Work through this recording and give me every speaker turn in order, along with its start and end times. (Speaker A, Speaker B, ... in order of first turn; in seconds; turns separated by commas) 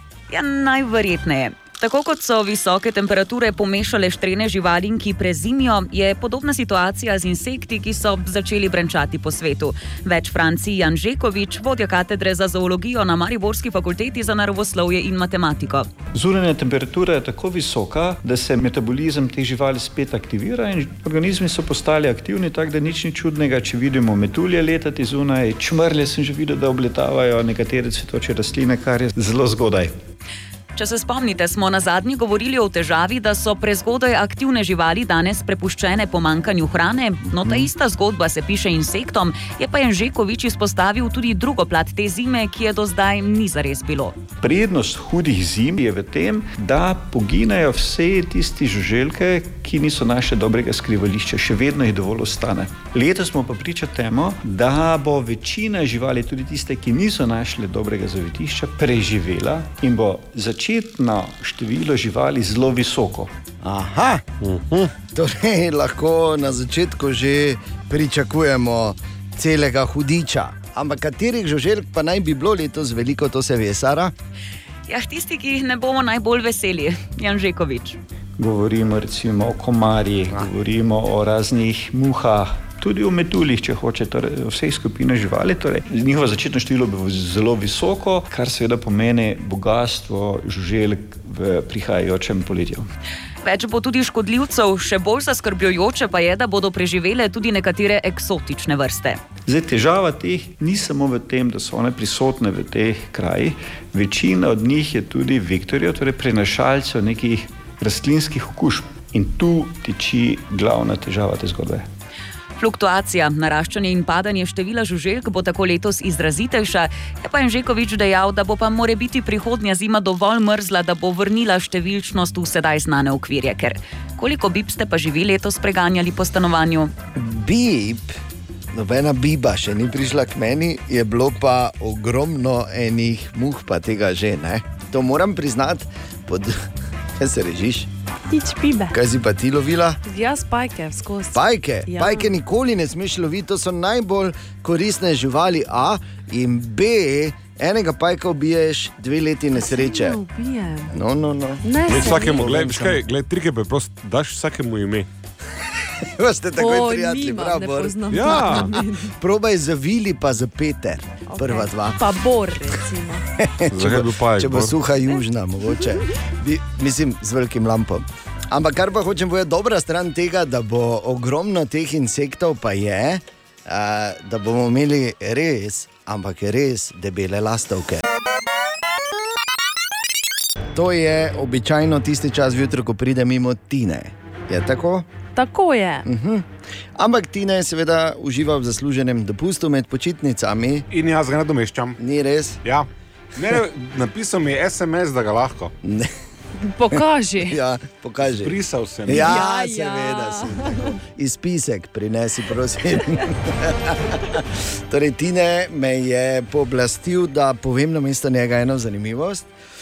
Speaker A: 0.3-15.9, Speaker B: 16.1-29.9, Speaker A: 30.8-44.2, Speaker C: 37.3-37.7, Speaker B: 44.4-63.3, Speaker C: 63.6-64.2, Speaker D: 64.4-64.9, Speaker C: 65.1-74.1, Speaker A: 74.9-78.0, Speaker B: 78.4-92.9, Speaker A: 93.4-99.2, Speaker B: 99.5-111.9, Speaker A: 112.6-126.9, Speaker C: 127.2-128.2, Speaker C: 128.7-136.7, Speaker C: 137.2-137.9, Speaker E: 138.3-139.0, Speaker C: 138.9-140.0, Speaker E: 140.1-142.3, Speaker C: 141.3-150.2, Speaker E: 149.6-150.9, Speaker C: 150.9-153.0, Speaker E: 151.6-152.7, Speaker D: 151.9-155.1, Speaker C: 155.8-162.0, Speaker E: 156.6-159.1, Speaker D: 158.1-158.7, Speaker E: 161.3-163.2, Speaker C: 163.4-178.0, Speaker D: 163.7-164.8, Speaker C: 180.7-185.1, Speaker E: 185.3-186.1, Speaker C: 186.1-190.9, Speaker D: 190.9-192.0, Speaker C: 192.0-192.6, Speaker D: 192.7-195.7, Speaker C: 195.8-196.1, Speaker E: 196.6-197.6, Speaker C: 196.9-209.5, Speaker D: 198.4-199.4, Speaker E: 199.1-201.0